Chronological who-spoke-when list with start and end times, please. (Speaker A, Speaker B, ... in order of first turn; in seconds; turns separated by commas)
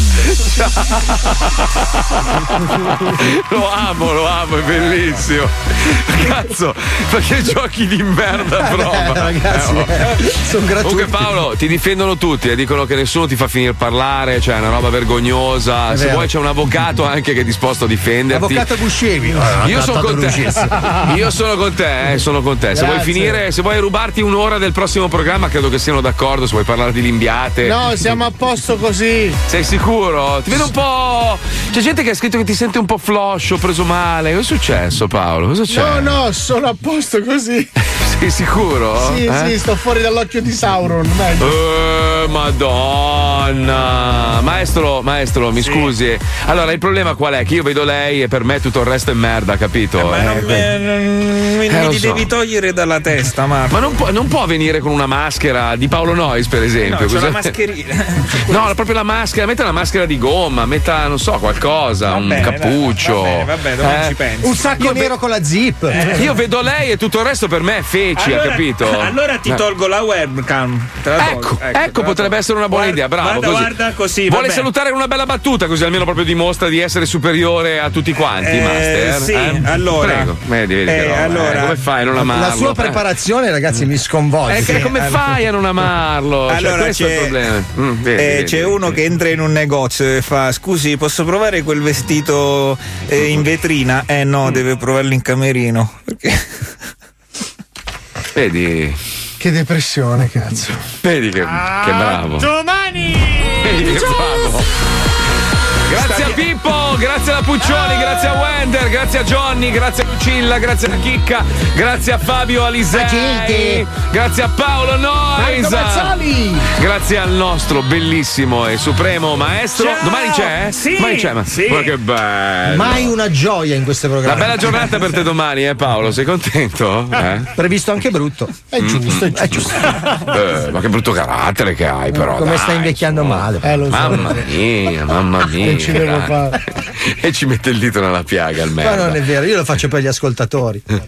Speaker A: 0.2-18.7, Speaker B: 8.6-11.3, Speaker B: 15.9-16.3, Speaker B: 18.3-21.0, Speaker A: 19.4-27.8, Speaker C: 22.8-23.3, Speaker C: 27.6-29.4, Speaker A: 29.5-36.2, Speaker C: 35.7-37.7, Speaker A: 37.9-39.6, Speaker C: 39.0-41.6, Speaker A: 41.4-50.7, Speaker D: 45.6-45.9, Speaker D: 50.0-54.0, Speaker A: 51.7-52.3, Speaker A: 53.7-57.5, Speaker D: 56.8-58.8, Speaker A: 58.5-64.2, Speaker D: 62.0-64.9, Speaker B: 64.4-66.3, Speaker A: 64.8-65.1, Speaker D: 65.9-66.4, Speaker A: 66.1-69.6, Speaker D: 68.2-74.7, Speaker A: 71.2-83.1, Speaker D: 78.3-81.8, Speaker B: 82.1-84.9, Speaker D: 84.5-85.3, Speaker A: 84.5-89.0, Speaker D: 86.5-87.5, Speaker D: 88.1-96.6, Speaker A: 98.3-99.0, Speaker C: 99.4-100.8, Speaker A: 101.0-102.5, Speaker E: 101.4-104.2, Speaker A: 103.6-104.7, Speaker A: 105.9-123.2, Speaker D: 105.9-106.4, Speaker B: 112.9-113.8, Speaker C: 115.4-116.2, Speaker D: 119.8-121.9, Speaker B: 122.7-125.0, Speaker A: 124.2-127.5, Speaker B: 127.5-129.9, Speaker A: 128.8-139.2, Speaker B: 132.1-134.4, Speaker C: 133.6-134.5, Speaker C: 135.6-136.6, Speaker B: 138.8-140.8